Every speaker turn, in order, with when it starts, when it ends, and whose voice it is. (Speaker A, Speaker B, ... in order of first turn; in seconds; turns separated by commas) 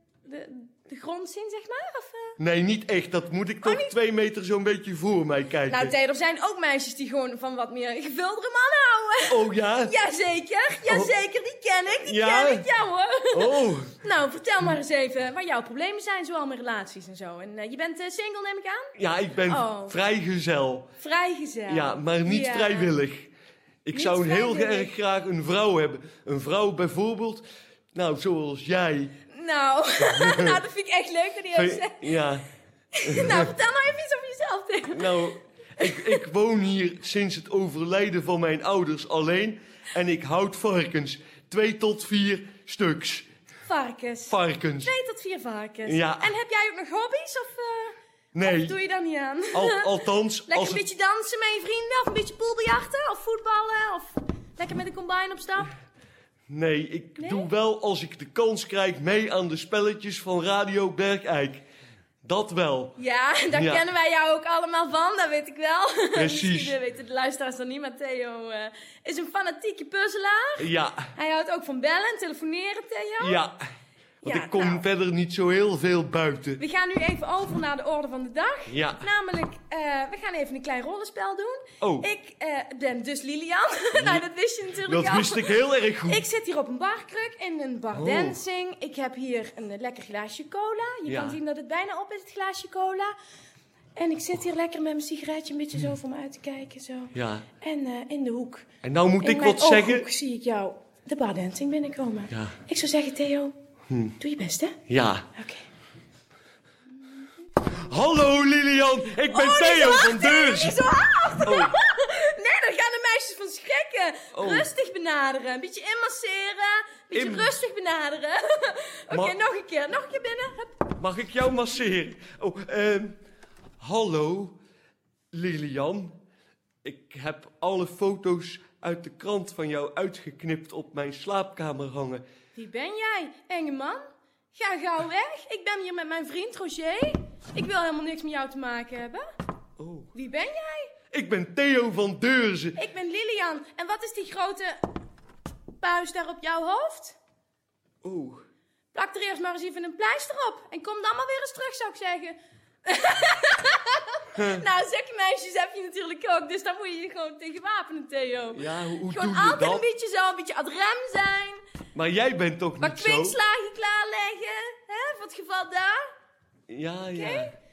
Speaker A: 0.2-2.4, Speaker B: 2.4-5.9, Speaker A: 3.6-3.9, Speaker A: 5.7-19.9, Speaker B: 9.3-9.9, Speaker B: 10.9-11.1, Speaker B: 12.0-12.7, Speaker B: 13.3-13.9, Speaker B: 18.9-20.9, Speaker A: 21.0-22.9, Speaker B: 21.7-23.3, Speaker B: 23.8-29.2, Speaker A: 23.9-24.9, Speaker A: 29.3-32.1, Speaker B: 30.1-30.5, Speaker B: 31.5-32.5, Speaker A: 33.0-35.1, Speaker B: 33.0-33.5, Speaker B: 34.9-43.3, Speaker A: 35.8-36.1, Speaker A: 43.6-55.7, Speaker B: 44.3-44.9, Speaker B: 45.9-46.3, Speaker B: 48.3-48.8, Speaker B: 49.5-50.8, Speaker B: 56.5-61.7, Speaker A: 57.2-57.5, Speaker B: 62.2-63.0, Speaker A: 63.0-73.4, Speaker B: 63.5-63.9, Speaker B: 66.1-66.8, Speaker B: 70.6-71.0, Speaker B: 73.2-73.5, Speaker B: 74.2-76.6, Speaker A: 74.2-74.8, Speaker A: 76.6-93.1, Speaker B: 78.7-79.1, Speaker B: 81.8-82.1, Speaker B: 83.9-84.2, Speaker B: 84.8-86.2, Speaker B: 87.9-88.4, Speaker B: 91.0-91.4, Speaker A: 94.0-98.7, Speaker B: 97.1-97.5, Speaker B: 98.8-100.1, Speaker A: 99.2-103.5, Speaker A: 104.2-104.8, Speaker B: 104.9-105.2, Speaker A: 105.3-105.7, Speaker B: 107.7-110.8, Speaker A: 109.2-120.8, Speaker B: 111.4-111.7, Speaker B: 114.3-114.7, Speaker B: 117.1-117.6, Speaker B: 119.1-119.4, Speaker B: 121.0-123.2, Speaker B: 123.8-124.6, Speaker B: 125.3-126.2, Speaker B: 126.8-132.2, Speaker A: 132.5-134.0, Speaker A: 134.5-139.2, Speaker B: 139.8-140.1, Speaker A: 140.1-140.9, Speaker B: 141.1-142.8, Speaker A: 142.8-144.8, Speaker A: 145.8-147.2, Speaker B: 148.0-148.4, Speaker A: 148.9-161.6, Speaker B: 154.3-154.6, Speaker B: 158.5-159.8, Speaker B: 161.9-163.4, Speaker A: 162.8-166.0, Speaker B: 166.7-167.5, Speaker A: 167.1-167.5